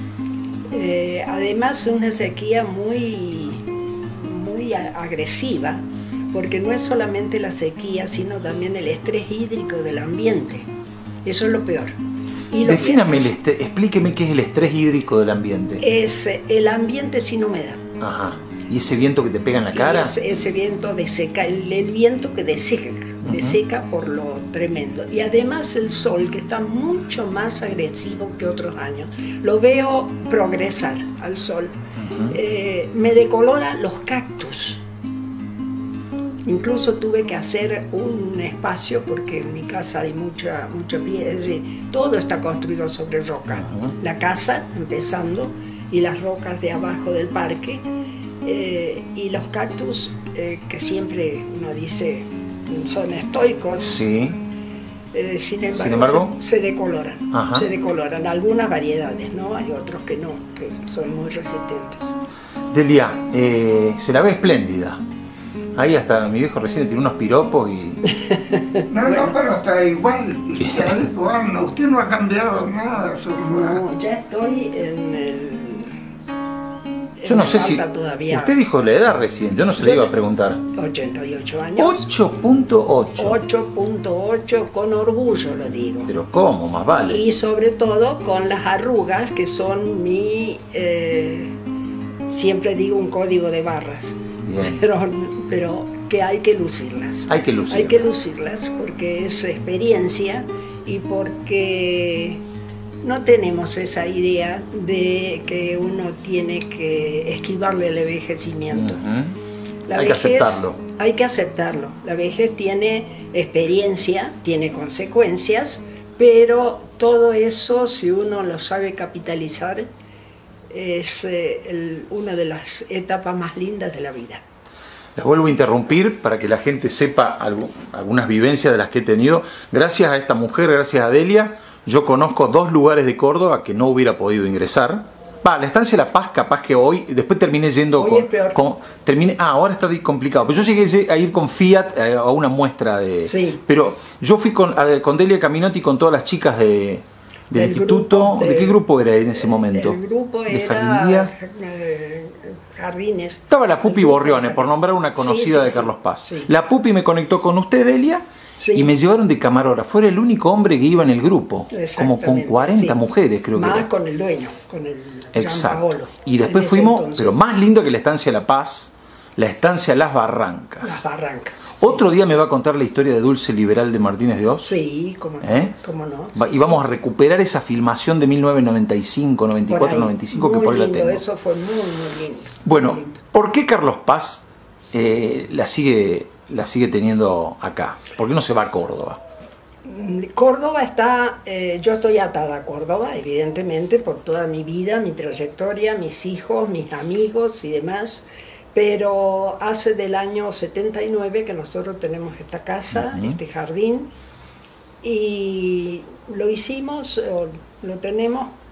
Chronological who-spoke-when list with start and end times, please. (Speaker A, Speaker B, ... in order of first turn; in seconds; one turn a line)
Speaker A: 0.7-10.7
Speaker A: 11.2-11.9
Speaker A: 12.5-13.3
Speaker B: 12.6-15.8
Speaker A: 15.8-17.8
Speaker B: 18.0-20.1
Speaker A: 19.7-31.7
Speaker B: 23.2-23.6
Speaker B: 31.9-32.4
Speaker A: 32.3-34.8
Speaker A: 36.5-47.8
Speaker B: 43.6-43.9
Speaker A: 48.4-54.0
Speaker B: 53.8-54.4
Speaker A: 55.1-62.1
Speaker B: 55.7-56.3
Speaker B: 57.3-57.7
Speaker B: 62.7-65.0
Speaker B: 65.8-68.0
Speaker A: 68.3-69.4
Speaker C: 68.9-73.8
Speaker B: 70.7-70.9
Speaker A: 73.4-75.9
Speaker A: 77.2-78.5
Speaker B: 77.2-80.6
Speaker A: 79.8-80.1
Speaker A: 80.7-82.1
Speaker B: 81.8-83.4
Speaker A: 83.2-86.1
Speaker B: 86.1-87.2
Speaker A: 87.0-91.5
Speaker A: 92.3-102.4
Speaker B: 94.4-94.8
Speaker B: 97.3-98.2
Speaker A: 103.0-109.0
Speaker B: 108.7-109.4
Speaker A: 109.9-119.9
Speaker B: 109.9-110.8
Speaker A: 120.7-124.4
Speaker B: 125.2-151.3
Speaker A: 137.9-138.6
Speaker A: 143.2-143.6
Speaker A: 147.5-148.8
Speaker A: 149.3-156.5
Speaker B: 153.5-163.8
Speaker A: 158.6-158.9
Speaker A: 161.7-163.0
Speaker A: 163.5-167.4
Speaker B: 165.3-171.0
Speaker A: 170.8-172.0
Speaker B: 171.8-174.7
Speaker A: 174.6-176.8
Speaker B: 175.4-175.7
Speaker B: 176.3-181.2
Speaker A: 179.7-183.1
Speaker B: 182.6-189.2
Speaker A: 189.8-204.1
Speaker B: 202.9-203.4
Speaker A: 205.0-208.5